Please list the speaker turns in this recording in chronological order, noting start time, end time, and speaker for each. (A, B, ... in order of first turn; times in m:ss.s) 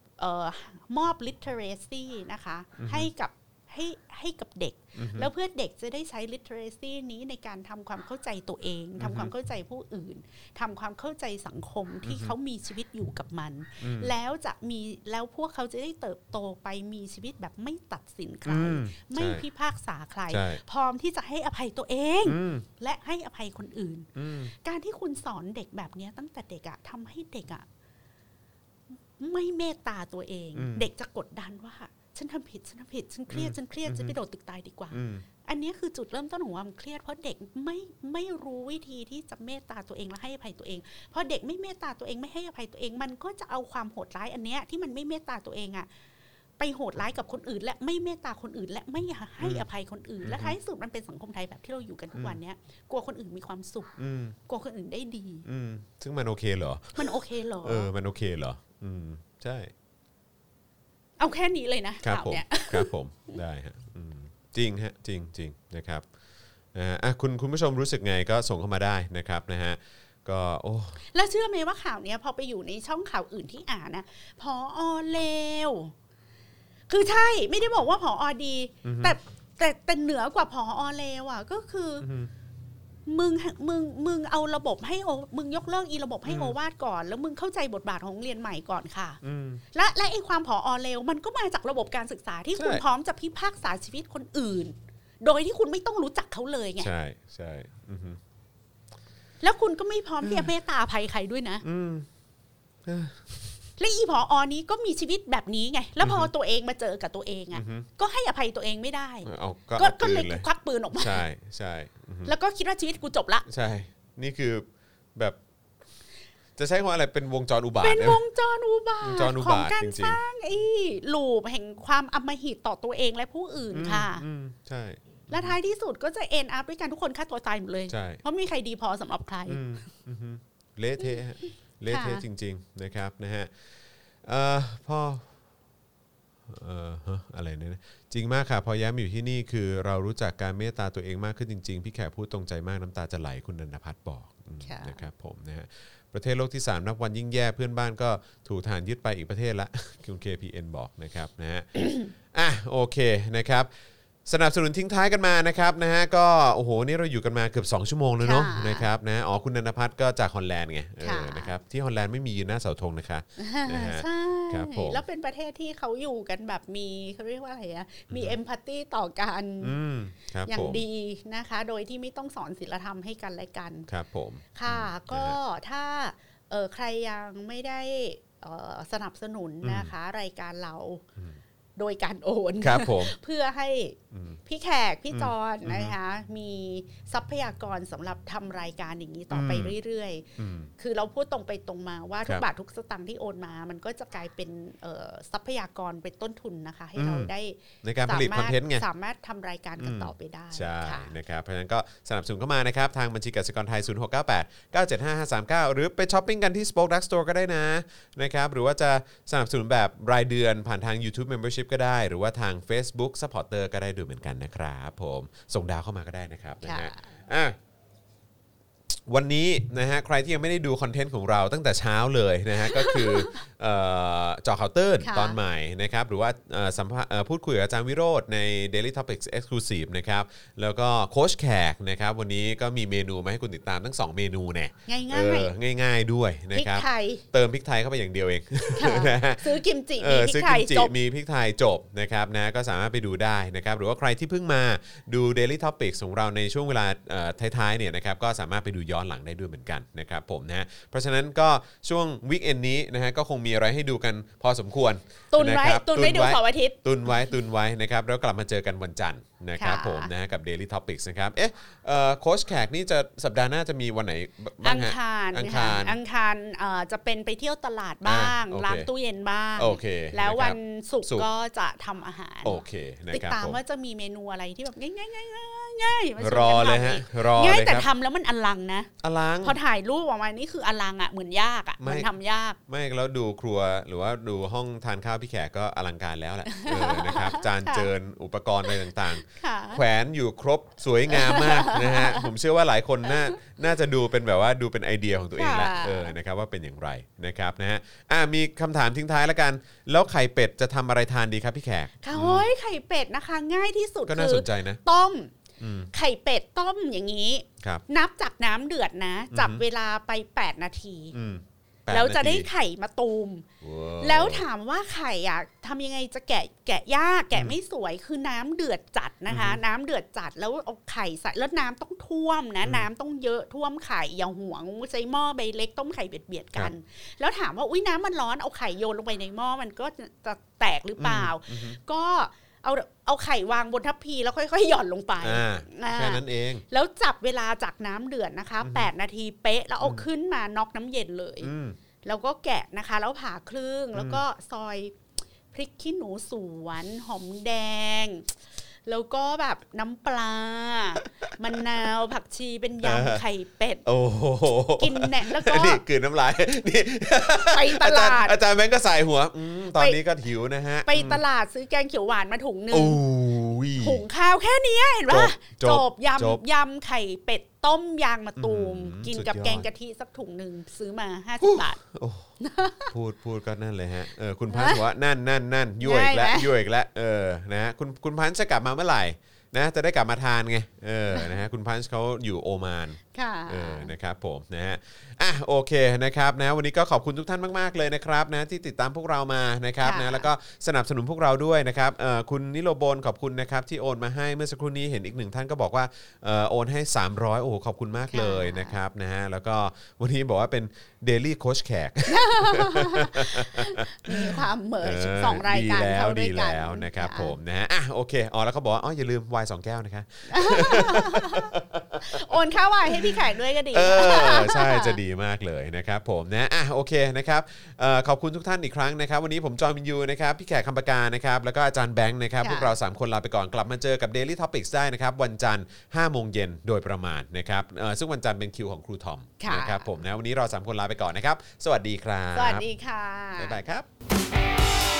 0:00.2-0:27.6 A
0:02.8-0:03.1 B
0:05.0-0:05.3 B
0:09.0-0:09.3 B
0:12.0-0:12.3 B
0:13.8-0:14.1 B
0:18.5-0:19.4 B
0:20.3-0:20.6 B
0:22.2-0:22.6 B
0:24.1-0:24.5 B
0:29.2-0:45.9 A
0:30.5-0:30.9 B
0:33.3-0:34.2 B
0:34.9-0:35.2 B
0:46.6-0:53.9 A
0:50.2-0:50.6 B
0:54.0-0:54.4 B
0:54.4-0:55.4 A
0:55.4-0:59.7 B
0:57.0-0:57.9 A
1:01.2-1:03.4 A
1:02.0-1:06.0 B
1:06.7-1:11.0 B
1:11.0-1:15.9 A
1:16.9-1:22.0 A
1:18.8-1:19.2 B
1:22.0-1:22.3 B
1:23.0-1:29.2 A
1:26.2-1:26.5 B
1:29.2-1:29.6 B
1:29.7-1:36.9 A
1:32.6-1:32.8 B
1:36.8-1:38.2 B
1:39.4-1:41.6 A
1:40.2-1:40.5 B
1:41.6-1:42.0 B
1:42.8-1:43.5 B
1:43.8-1:51.2 A
1:46.0-1:46.3 B
1:47.5-1:47.9 B
1:49.2-1:52.3 B
1:52.2-1:53.5 A
1:53.5-1:55.4 B
1:56.6-1:58.2 B
1:57.8-2:04.2 A
1:59.0-2:00.2 B
2:03.7-2:05.6 B
2:05.3-2:09.6 A
2:07.9-2:08.2 B
2:09.5-2:13.5 B
2:11.9-2:12.2 A
2:14.2-2:15.3 B
2:16.5-2:33.7 B
2:24.6-2:25.0 A
2:31.8-2:32.1 A
2:34.2-2:45.0 B
2:38.2-2:38.9 A
2:41.0-2:41.5 A
2:43.4-2:49.8 A
2:48.1-2:48.4 B
2:49.6-2:50.8 B
2:50.5-2:53.9 A
2:53.9-2:55.4 B
2:54.5-3:01.0 A
2:59.6-2:59.9 B
3:01.8-3:21.1 A
3:02.6-3:03.1 B
3:04.1-3:04.4 B
3:05.1-3:06.0 B
3:09.3-3:09.7 B
3:10.4-3:10.7 B
3:17.0-3:17.3 B
3:17.8-3:18.8 B
3:19.8-3:37.6 B
3:36.6-3:37.0 A
3:39.0-4:26.0 B
3:42.7-3:43.4 A
3:45.0-3:45.4 A
3:54.9-3:55.5 A
3:56.5-3:57.2 A
3:58.8-4:00.9 A
4:15.3-4:16.8 A
4:19.6-4:20.1 A
4:24.6-4:38.9 A
4:28.0-4:28.9 B
4:29.6-4:31.3 B
4:32.4-4:33.6 B
4:36.2-4:37.9 B
4:39.0-4:39.6 B
4:39.4-4:42.6 A
4:41.8-4:42.1 B
4:42.7-5:02.5 B
4:46.5-4:47.9 A
4:49.2-4:49.8 A
4:51.1-4:52.3 A
4:53.1-4:53.4 A
4:55.4-4:56.2 A
5:02.0-5:05.3 A
5:04.1-5:04.8 B
5:05.6-5:05.9 B
5:05.9-5:11.1 A
5:09.3-5:09.6 B
5:11.1-5:12.5 B
5:11.9-5:13.5 A
5:13.6-5:14.5 B
5:14.0-5:41.5 A
5:19.3-5:19.6 B
5:31.0-5:31.8 B
5:35.2-5:36.6 B
5:38.6-5:38.9 B
5:39.8-5:40.0 B
5:41.4-5:41.8 B
5:42.0-5:45.0 A
5:43.9-5:44.2 B
5:45.5-5:53.8 A
5:51.0-5:51.6 B
5:52.8-5:53.2 B
5:53.8-6:01.2 B
5:54.8-5:55.8 A
5:57.4-5:58.4 A
6:00.8-6:03.0 A
6:02.7-6:04.0 B
6:03.8-6:11.8 A
6:05.1-6:06.4 B
6:08.4-6:09.7 B
6:11.4-6:12.3 B
6:12.4-6:12.9 A
6:12.9-7:12.6 B
6:14.5-6:14.8 A
6:15.8-6:16.5 A
6:23.1-6:23.9 A
6:29.8-6:30.3 A
6:38.1-6:38.8 A
6:42.1-6:47.4 A
6:50.3-6:55.0 A
7:02.4-7:02.7 A
7:09.4-7:09.9 A
7:12.3-7:13.6 A
7:13.4-7:13.9 B